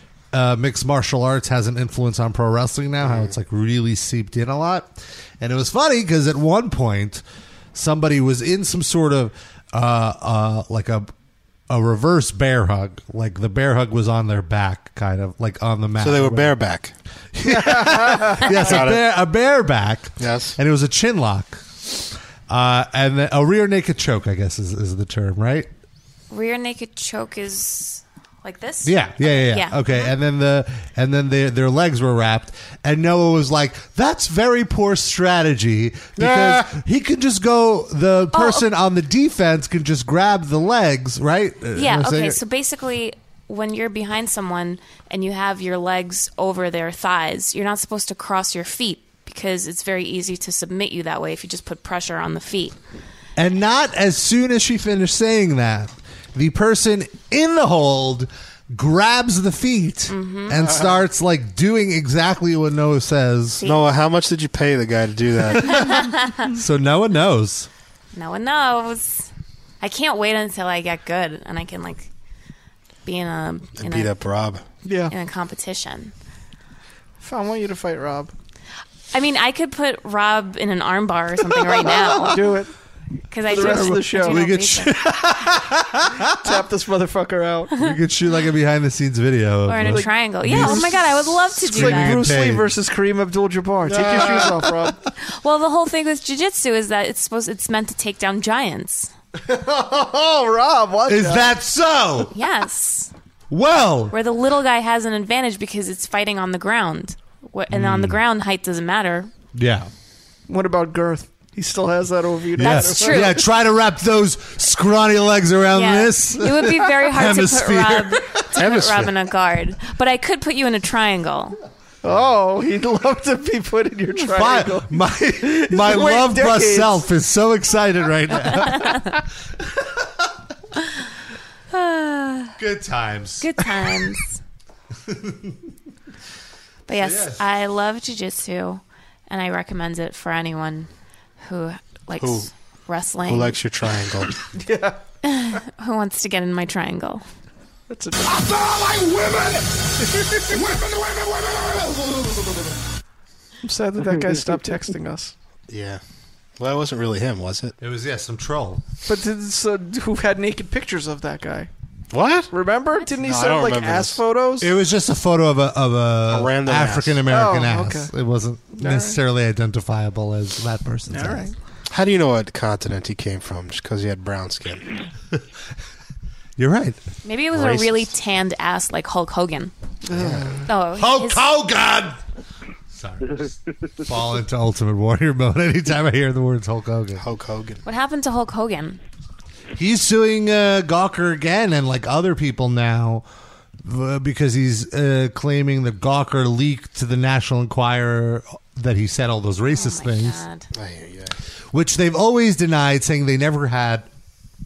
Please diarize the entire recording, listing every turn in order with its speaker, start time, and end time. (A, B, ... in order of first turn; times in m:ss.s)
0:00.3-0:11.1 A
0:03.0-0:03.3 B
0:11.7-0:16.6 A
0:16.0-0:16.9 B
0:17.4-0:25.7 A
0:17.5-0:18.5 C
0:18.5-0:19.0 B
0:20.2-0:20.6 B
0:26.3-0:30.1 D
0:28.8-0:42.4 A
0:36.2-0:36.7 B
0:38.3-0:38.7 D
0:41.8-0:52.8 D
0:53.4-1:03.6 A
1:00.1-1:00.6 D
1:03.6-1:05.9 B
1:05.6-1:06.5 D
1:06.5-1:07.7 A
1:08.1-1:09.3 D
1:09.8-1:12.1 D
1:13.0-1:14.1 D
1:13.8-1:14.6 B
1:14.8-1:15.1 C
1:15.1-1:16.1 D
1:17.2-1:18.3 C
1:19.1-1:22.4 D
1:21.5-1:22.7 C
1:23.3-1:25.1 D
1:23.5-1:24.4 C
1:23.5-1:26.5 A
1:26.4-1:27.7 C
1:27.8-1:32.7 A
1:29.6-1:32.2 D
1:29.9-1:31.0 C
1:31.7-1:35.0 C
1:33.9-1:34.4 B
1:33.9-1:34.8 A
1:35.2-1:39.1 D
1:39.5-1:41.5 C
1:41.1-1:42.3 A
1:42.3-1:43.1 D
1:43.5-1:44.1 A
1:44.1-1:49.3 D
1:47.7-1:48.2 A
1:49.5-1:49.9 A
1:50.5-1:53.3 C
1:52.6-1:58.4 A
1:52.6-1:53.4 D
1:55.7-2:01.6 D
1:58.6-1:59.1 B
2:02.0-2:07.0 C
2:04.3-2:09.2 A
2:08.5-2:09.1 D
2:11.7-2:12.6 D
2:12.6-2:13.5 A
2:13.4-2:14.4 D
2:15.1-2:15.6 A
2:16.9-2:20.9 D
2:17.0-2:17.4 A
2:21.4-2:23.6 D
2:22.2-2:22.5 B
2:23.3-2:24.4 B
2:24.5-2:25.0 C
2:25.2-2:27.2 D
2:27.9-2:28.8 C
2:30.1-2:30.7 C
2:33.6-2:35.3 C
2:35.7-2:36.0 B
2:36.6-2:37.8 B
2:37.8-2:38.8 A
2:39.1-2:41.7 C
2:42.1-2:42.5 B
2:42.5-2:44.7 C
2:43.2-2:44.2 B
2:44.6-2:51.5 A
2:46.3-2:47.2 B
2:47.3-2:48.1 C
2:48.8-2:49.2 C
2:51.1-2:51.5 C
2:51.9-2:54.9 B
2:56.6-2:57.0 A
2:57.2-2:59.7 D
2:57.5-2:58.1 B
3:00.1-3:00.7 C
3:00.1-3:00.5 B
3:00.7-3:01.4 D
3:00.9-3:02.2 A
3:02.9-3:07.2 A
3:07.2-3:07.8 B
3:07.8-3:09.0 D
3:09.8-3:13.2 A
3:13.8-3:20.4 A
3:19.7-3:20.7 D
3:20.7-3:21.4 B
3:21.7-3:24.1 A